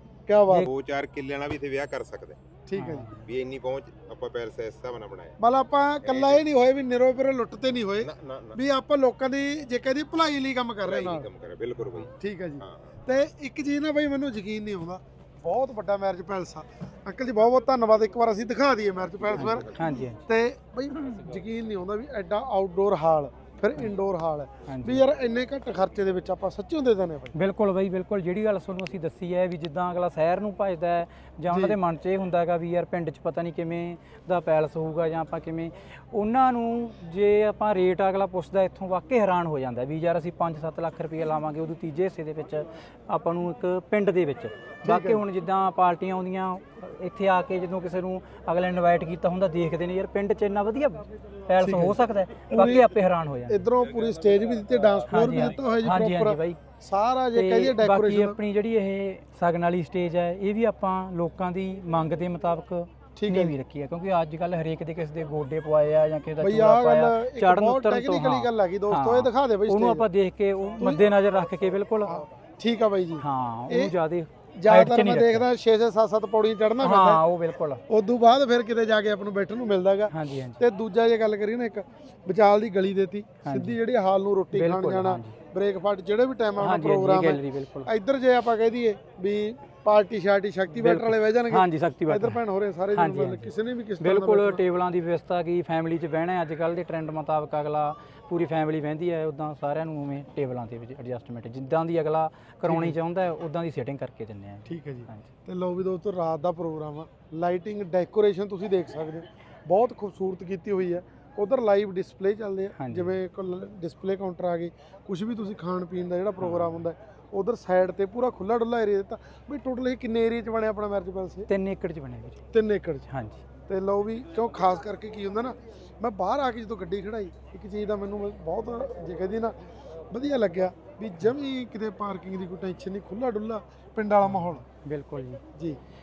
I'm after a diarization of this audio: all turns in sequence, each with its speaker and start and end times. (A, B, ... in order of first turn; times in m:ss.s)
0:00.3-0:00.7 A
0:00.6-0:02.4 B
0:02.7-0:03.1 A
0:02.8-0:03.3 C
0:03.2-0:05.4 B
0:05.4-0:11.3 A
0:06.0-0:06.4 B
0:08.0-0:08.6 B
0:10.8-0:12.1 B
0:12.0-0:27.4 A
0:12.6-0:13.0 B
0:19.4-0:20.2 C
0:24.7-0:25.0 C
0:27.4-0:53.6 C
0:31.5-0:31.8 A
0:44.8-0:45.2 A
0:51.6-0:53.0 A
0:53.5-0:58.4 A
0:55.1-0:56.6 C
0:57.4-1:12.1 C
1:03.2-1:03.6 A
1:06.4-1:10.1 A
1:12.1-1:13.9 A
1:13.2-1:15.5 C
1:14.6-1:17.2 A
1:16.8-1:17.8 C
1:17.9-1:34.6 A
1:20.1-1:20.6 C
1:23.4-1:23.8 C
1:24.5-1:25.4 C
1:26.6-1:27.9 C
1:30.7-1:32.4 C
1:32.9-1:45.3 C
1:42.7-1:43.0 A
1:44.7-2:01.5 A
1:52.8-1:53.2 C
1:56.4-1:56.8 C
2:01.5-2:02.4 C
2:02.5-2:03.1 A
2:03.1-2:03.4 C
2:03.7-2:09.6 A
2:10.1-2:14.6 A
2:14.2-2:15.4 C